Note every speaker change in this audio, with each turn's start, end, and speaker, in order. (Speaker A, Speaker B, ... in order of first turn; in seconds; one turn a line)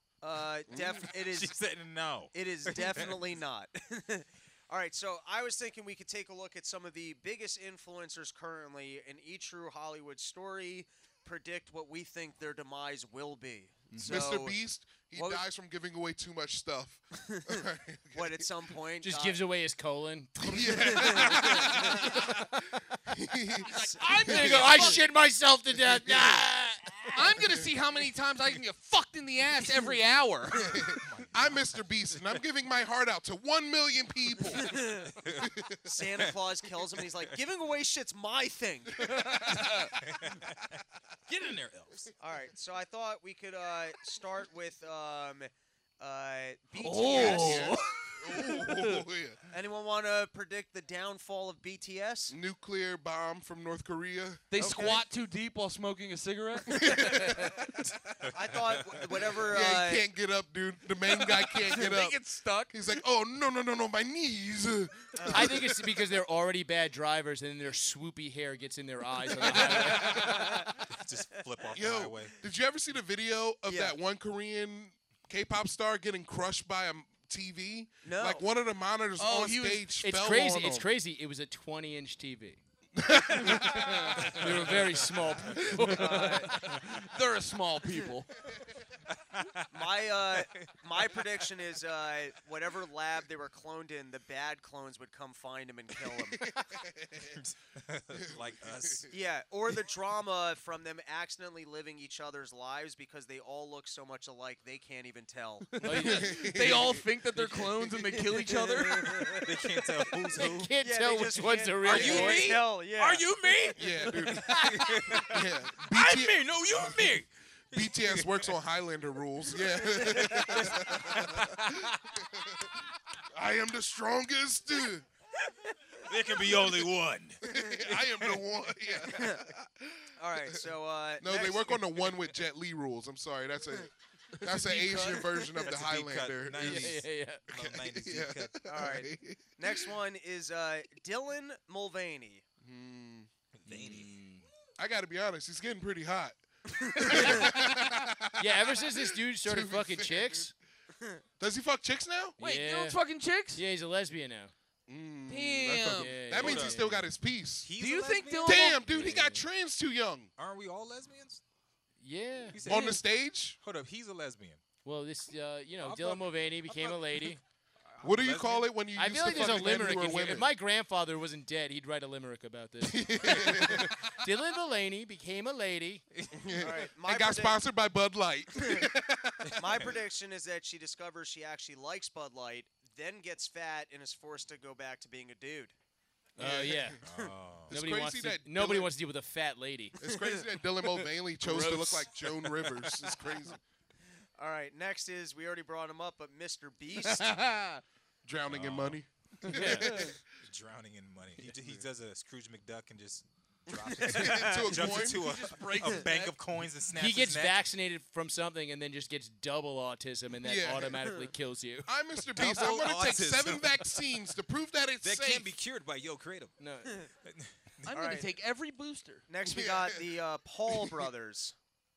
Speaker A: 0.2-1.5
Speaker B: 1.0-3.4
Speaker A: 2.3-15.4
Speaker C: 13.9-14.3
Speaker D: 14.0-18.4
Speaker A: 17.1-19.4
Speaker C: 19.0-22.3
Speaker D: 20.4-23.7
Speaker A: 20.8-22.1
Speaker E: 23.6-25.0
Speaker A: 23.7-25.0
Speaker C: 24.2-27.4
Speaker D: 24.2-25.0
Speaker D: 25.9-26.4
Speaker E: 27.1-30.8
Speaker D: 30.6-34.9
Speaker B: 31.0-32.4
Speaker A: 34.6-35.0
Speaker B: 35.1-35.5
Speaker D: 35.4-36.0
Speaker A: 35.9-39.5
Speaker E: 39.3-39.9
Speaker B: 39.8-42.1
Speaker A: 42.2-45.5
Speaker A: 46.0-47.8
Speaker E: 46.7-48.1
Speaker D: 47.1-49.4
Speaker A: 49.5-52.3
Speaker D: 52.3-54.5
Speaker E: 54.5-57.5
Speaker A: 54.6-55.0
Speaker D: 56.7-57.9
Speaker B: 58.2-59.1
Speaker A: 58.3-60.0
Speaker D: 59.4-62.2
Speaker E: 61.6-62.7
Speaker D: 62.7-65.8
Speaker A: 65.1-65.6
Speaker C: 65.3-70.7
Speaker D: 69.5-70.3
Speaker A: 69.5-70.8
Speaker E: 69.7-70.0
Speaker B: 70.0-72.3
Speaker D: 71.7-80.9
Speaker A: 73.7-74.0
Speaker A: 78.0-78.5
Speaker E: 79.2-79.9
Speaker C: 80.0-82.6
Speaker D: 83.0-84.9
Speaker C: 83.4-86.8
Speaker E: 83.8-84.4
Speaker B: 84.2-85.8
Speaker D: 85.5-86.0
Speaker A: 85.8-86.7
Speaker E: 86.4-88.3
Speaker B: 89.1-90.7
Speaker A: 89.7-96.4
Speaker D: 96.4-97.4
Speaker B: 97.2-99.1
Speaker D: 98.2-99.1
Speaker A: 99.1-105.9
Speaker E: 105.8-109.4
Speaker C: 105.8-106.7
Speaker D: 106.0-107.1
Speaker C: 107.3-108.3
Speaker A: 108.2-109.5
Speaker B: 109.4-110.7
Speaker C: 110.2-112.5
Speaker A: 110.8-113.2
Speaker B: 111.8-115.3
Speaker E: 112.5-115.2
Speaker D: 113.7-117.2
Speaker C: 114.2-115.1
Speaker E: 115.9-117.3
Speaker B: 116.8-117.1
Speaker D: 117.7-122.7
Speaker B: 117.7-118.5
Speaker A: 120.2-120.7
Speaker B: 120.3-122.1
Speaker D: 123.3-125.0
Speaker B: 126.0-127.4
Speaker A: 127.4-128.3
Speaker D: 127.5-130.1
Speaker A: 128.9-129.5
Speaker A: 130.2-132.1
Speaker D: 131.2-139.9
Speaker E: 134.5-135.3
Speaker B: 135.6-138.6
Speaker C: 136.5-137.4
Speaker A: 138.7-142.4
Speaker D: 142.6-143.3
Speaker B: 143.5-144.1
Speaker C: 143.7-144.4
Speaker D: 144.8-150.5
Speaker A: 146.7-147.3
Speaker C: 148.4-150.5
Speaker D: 151.4-152.3
Speaker C: 152.4-153.0
Speaker E: 152.4-153.6
Speaker C: 153.5-154.5
Speaker D: 154.9-157.7
Speaker E: 155.3-156.2
Speaker C: 155.9-157.1
Speaker B: 156.3-156.8
Speaker B: 157.6-159.4
Speaker E: 157.8-158.8
Speaker D: 158.4-160.3
Speaker C: 158.8-159.5
Speaker B: 160.4-161.4
Speaker C: 162.0-163.0
Speaker B: 162.5-163.0
Speaker D: 162.6-163.6
Speaker B: 163.6-164.6
Speaker C: 164.8-167.4
Speaker B: 165.9-166.2
Speaker B: 168.0-168.7
Speaker D: 168.0-170.5
Speaker C: 168.9-176.0
Speaker D: 172.8-174.0
Speaker B: 173.2-173.8
Speaker B: 176.1-176.5
Speaker D: 176.3-179.8
Speaker A: 176.6-177.6
Speaker A: 178.6-178.8
Speaker A: 179.6-185.7
Speaker D: 186.4-188.9
Speaker C: 186.4-187.1
Speaker B: 187.0-187.7
Speaker C: 187.7-190.0
Speaker D: 190.0-193.6
Speaker C: 191.4-192.9
Speaker A: 194.4-197.3
Speaker E: 197.0-197.8
Speaker D: 198.2-200.2
Speaker B: 198.5-199.0
Speaker C: 199.5-200.1
Speaker B: 200.4-207.6
Speaker A: 204.0-204.9
Speaker D: 204.0-205.2
Speaker E: 205.1-206.3
Speaker C: 206.9-211.9
Speaker D: 210.4-211.2
Speaker D: 211.9-215.5
Speaker B: 212.3-213.8
Speaker B: 215.0-216.6
Speaker C: 216.6-217.1
Speaker B: 217.1-218.2
Speaker E: 217.9-219.3
Speaker A: 217.9-218.3
Speaker A: 219.3-221.5
Speaker D: 219.4-220.0
Speaker D: 220.7-221.0